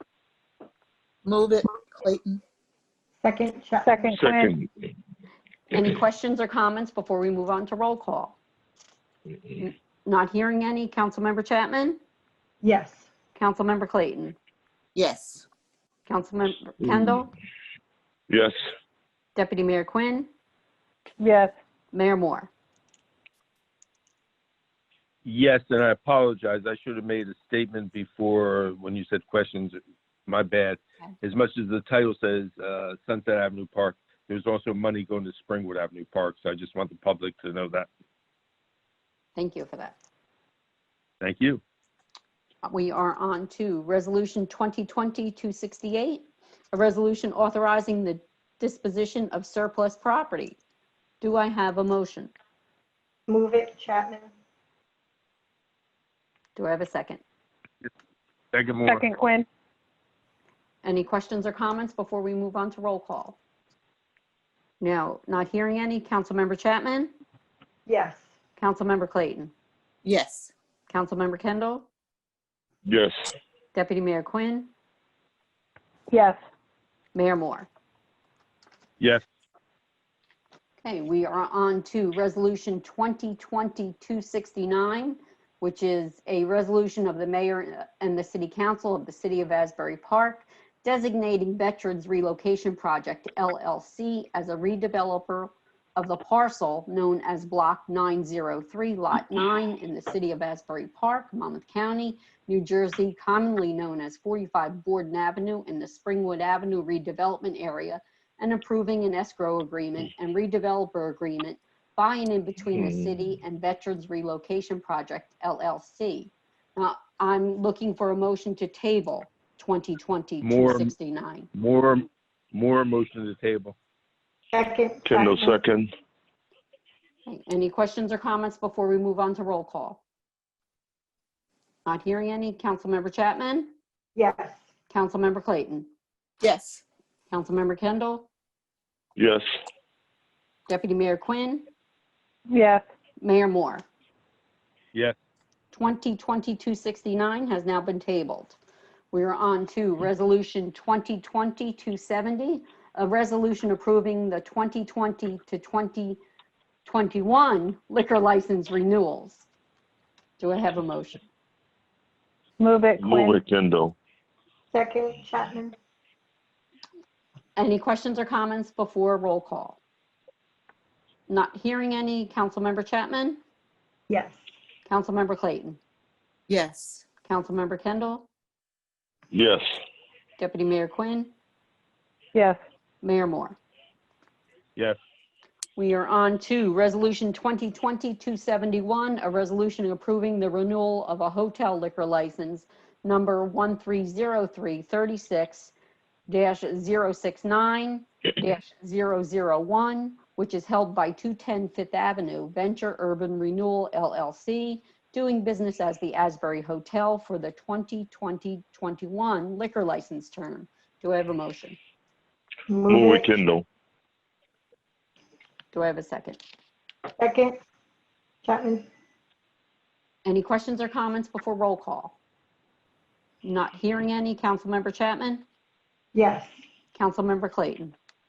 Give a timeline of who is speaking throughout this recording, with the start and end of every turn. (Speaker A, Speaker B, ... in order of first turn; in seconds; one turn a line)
Speaker A: 1.2-2.4
Speaker B: 3.2-4.0
Speaker C: 3.8-4.6
Speaker D: 4.2-4.7
Speaker E: 5.7-8.4
Speaker E: 9.6-12.0
Speaker B: 12.6-13.1
Speaker E: 13.3-14.4
Speaker A: 14.9-15.5
Speaker E: 16.1-17.3
Speaker D: 18.3-18.6
Speaker E: 19.4-20.3
Speaker C: 21.2-21.5
Speaker E: 21.9-22.5
Speaker F: 25.2-37.9
Speaker E: 39.4-40.0
Speaker F: 41.2-41.6
Speaker E: 42.6-50.6
Speaker E: 51.2-52.3
Speaker B: 53.3-54.3
Speaker E: 56.6-57.2
Speaker F: 58.5-59.0
Speaker C: 58.9-59.5
Speaker E: 60.8-63.4
Speaker E: 64.8-67.1
Speaker B: 67.9-68.2
Speaker E: 68.6-69.5
Speaker A: 70.0-70.5
Speaker E: 70.9-71.9
Speaker D: 72.9-73.2
Speaker E: 73.7-74.7
Speaker C: 76.1-76.4
Speaker E: 77.2-77.7
Speaker E: 80.8-121.5
Speaker F: 120.4-120.9
Speaker F: 121.5-123.8
Speaker B: 124.5-125.6
Speaker D: 125.0-125.9
Speaker E: 127.3-130.0
Speaker E: 131.8-133.7
Speaker B: 134.2-134.6
Speaker E: 134.9-135.9
Speaker A: 136.4-136.8
Speaker E: 137.3-138.3
Speaker D: 139.2-139.4
Speaker E: 140.7-141.7
Speaker C: 142.5-142.8
Speaker E: 143.2-143.8
Speaker E: 145.7-148.6
Speaker E: 149.1-156.2
Speaker E: 156.8-159.5
Speaker E: 160.4-161.2
Speaker C: 162.6-163.4
Speaker D: 163.0-163.9
Speaker B: 164.7-165.8
Speaker E: 167.6-169.8
Speaker E: 171.3-173.4
Speaker B: 174.1-174.4
Speaker E: 174.9-175.8
Speaker A: 176.5-177.0
Speaker E: 177.3-178.3
Speaker D: 179.3-179.7
Speaker E: 180.4-181.3
Speaker C: 182.3-182.6
Speaker E: 183.0-183.6
Speaker E: 185.8-195.7
Speaker E: 196.3-211.8
Speaker B: 212.7-213.3
Speaker D: 212.9-213.7
Speaker E: 215.7-216.4
Speaker B: 217.2-217.6
Speaker B: 218.4-218.9
Speaker E: 220.2-222.2
Speaker E: 223.4-225.4
Speaker B: 226.1-226.5
Speaker E: 226.9-227.9